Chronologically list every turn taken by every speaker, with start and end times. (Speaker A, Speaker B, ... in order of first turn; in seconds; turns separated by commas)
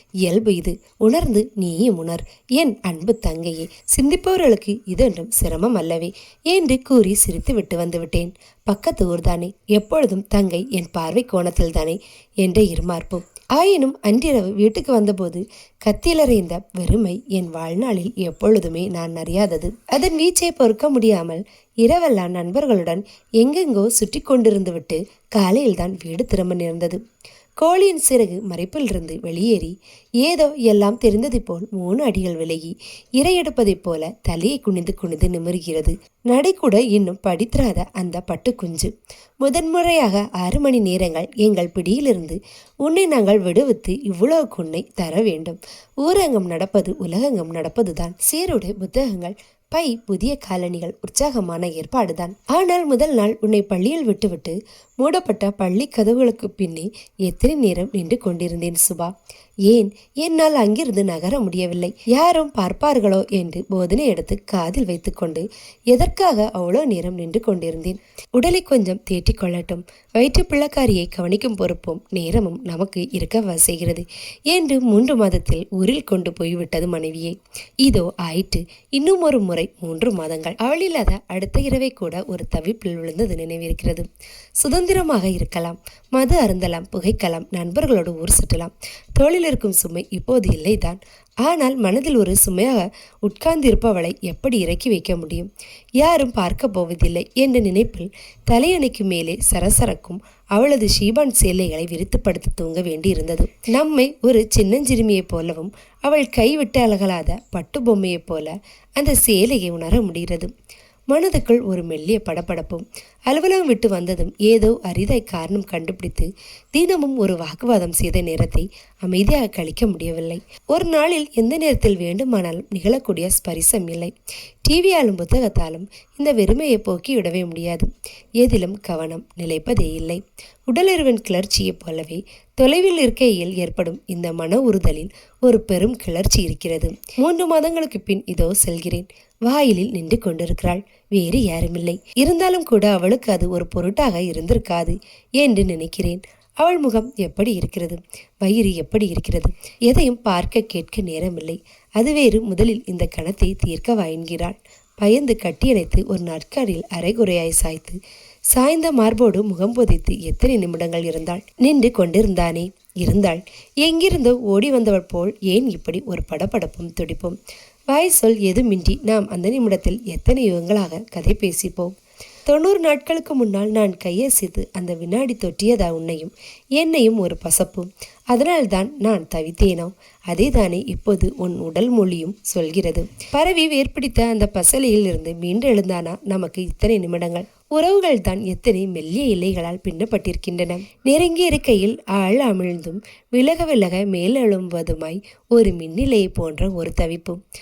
Speaker A: 0.2-27.0, Speaker A: 27.6-38.9, Speaker A: 39.4-59.1, Speaker A: 59.6-84.1, Speaker A: 84.6-95.5, Speaker A: 96.0-110.5, Speaker A: 111.1-124.1, Speaker A: 124.6-127.9, Speaker A: 128.4-158.0, Speaker A: 158.5-167.3, Speaker A: 167.9-171.9, Speaker A: 172.5-197.4